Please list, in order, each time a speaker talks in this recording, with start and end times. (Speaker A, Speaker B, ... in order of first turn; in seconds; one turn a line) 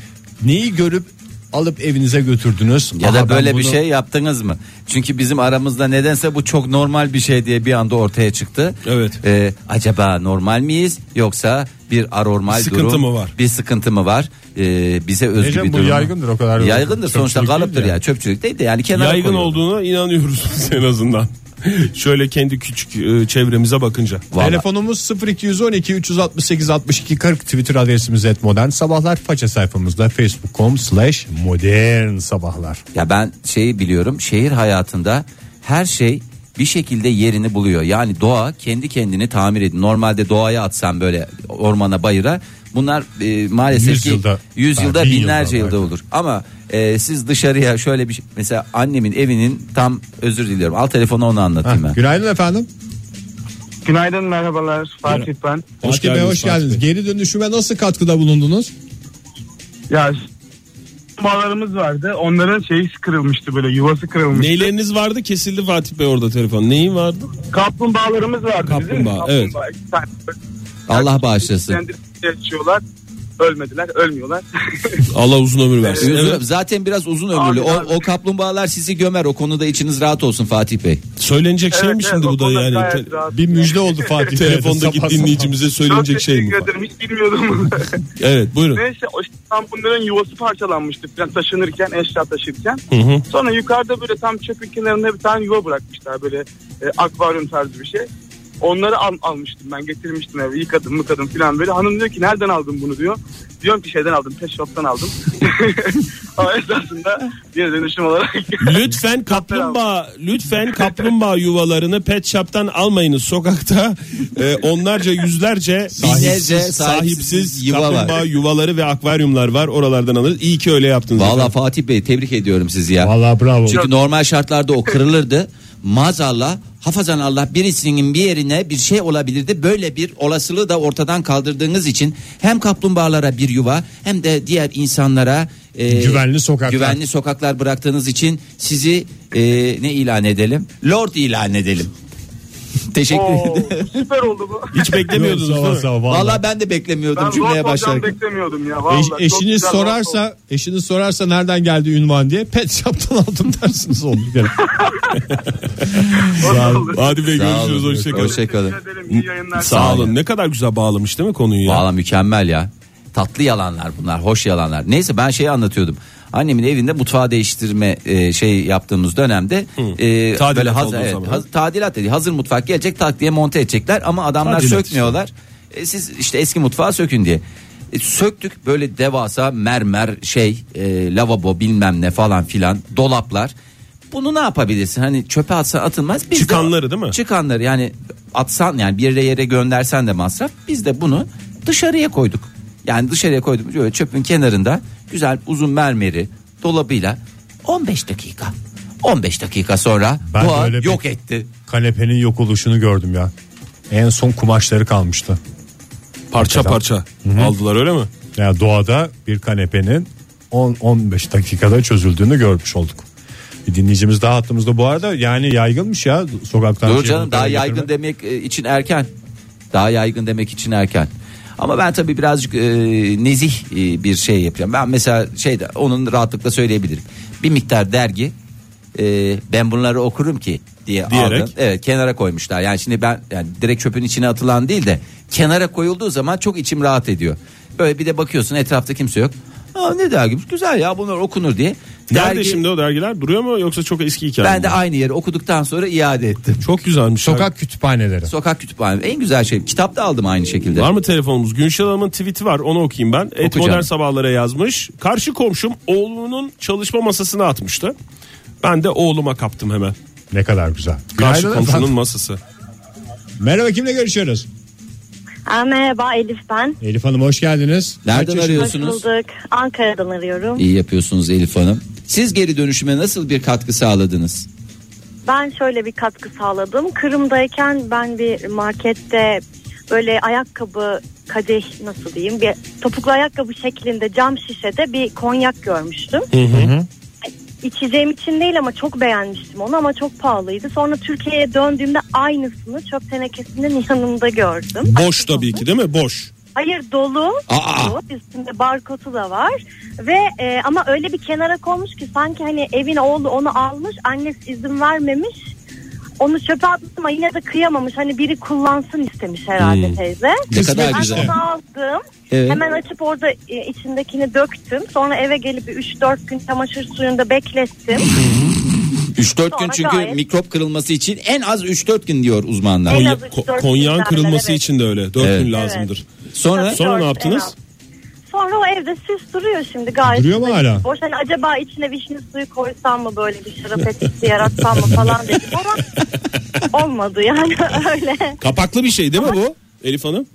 Speaker A: 0.4-3.8
Speaker B: 3.0-19.6
Speaker C: 8.8-9.2
Speaker C: 12.5-13.3
Speaker A: 15.4-18.0
Speaker C: 18.9-24.2
Speaker B: 24.3-24.6
Speaker A: 24.4-32.8
Speaker B: 32.9-52.0
Speaker A: 43.7-45.9
Speaker A: 51.6-52.7
Speaker D: 53.8-55.7
Speaker C: 55.8-56.8
Speaker A: 55.8-58.7
Speaker D: 59.9-60.2
Speaker D: 61.2-64.7
Speaker C: 64.3-67.3
Speaker D: 67.5-70.3
Speaker C: 68.7-69.5
Speaker B: 70.9-71.8
Speaker D: 70.9-72.8
Speaker D: 73.4-75.0
Speaker C: 75.1-76.4
Speaker B: 76.0-81.0
Speaker D: 77.3-78.1
Speaker C: 81.2-83.1
Speaker D: 81.7-84.4
Speaker A: 83.3-85.5
Speaker C: 84.3-86.7
Speaker D: 85.8-88.0
Speaker C: 88.2-88.8
Speaker D: 88.7-98.1
Speaker C: 92.9-93.2
Speaker D: 98.6-109.8
Speaker C: 108.6-121.5
Speaker A: 115.9-116.7
Speaker B: 116.0-118.2
Speaker B: 121.1-123.1
Speaker A: 123.0-123.8
Speaker B: 123.7-141.9
Speaker A: 135.9-137.0
Speaker B: 142.9-144.0
Speaker D: 143.1-144.9
Speaker C: 144.7-145.9
Speaker A: 145.1-146.4
Speaker B: 146.1-148.1
Speaker D: 147.1-150.2
Speaker A: 148.9-154.5
Speaker C: 156.3-158.4
Speaker D: 156.4-157.3
Speaker B: 157.3-158.8
Speaker D: 158.1-160.1
Speaker C: 159.1-161.8
Speaker B: 159.7-160.1
Speaker B: 161.6-183.5
Speaker C: 169.8-171.4
Speaker C: 174.4-175.2
Speaker B: 184.1-201.5
Speaker C: 186.3-187.2
Speaker A: 200.3-201.0
Speaker A: 201.7-203.3
Speaker A: 203.9-205.4
Speaker C: 206.3-208.1
Speaker A: 206.4-207.5
Speaker A: 208.3-213.1
Speaker A: 213.7-217.9
Speaker B: 216.8-219.1
Speaker B: 219.7-228.3
Speaker B: 228.9-242.6
Speaker C: 231.1-231.5
Speaker C: 242.1-244.8
Speaker B: 244.4-246.6
Speaker C: 246.6-247.5
Speaker A: 247.2-248.3
Speaker B: 248.2-250.9
Speaker C: 250.7-257.9
Speaker B: 253.4-253.9
Speaker C: 258.6-259.9
Speaker A: 260.3-261.9
Speaker C: 261.1-262.4
Speaker A: 263.4-264.4
Speaker E: 265.5-266.8
Speaker A: 266.8-268.7
Speaker B: 268.0-269.0
Speaker E: 268.4-270.6
Speaker B: 270.6-274.5
Speaker E: 275.2-286.3
Speaker C: 286.3-286.7
Speaker A: 286.5-286.9
Speaker E: 287.6-295.6
Speaker C: 294.8-296.3
Speaker E: 296.5-305.3
Speaker B: 297.5-297.9
Speaker E: 306.2-318.1
Speaker C: 309.6-309.9
Speaker B: 310.5-311.3
Speaker A: 310.5-311.3
Speaker B: 312.3-312.6
Speaker C: 318.2-318.5
Speaker B: 319.1-323.0
Speaker E: 319.5-320.2
Speaker E: 322.9-324.6
Speaker C: 322.9-326.0
Speaker B: 325.2-325.5
Speaker E: 325.5-325.9
Speaker B: 326.3-326.8
Speaker E: 326.5-327.5
Speaker C: 326.7-327.5
Speaker E: 328.3-335.9
Speaker A: 330.0-330.8
Speaker E: 336.7-338.4
Speaker C: 338.4-340.3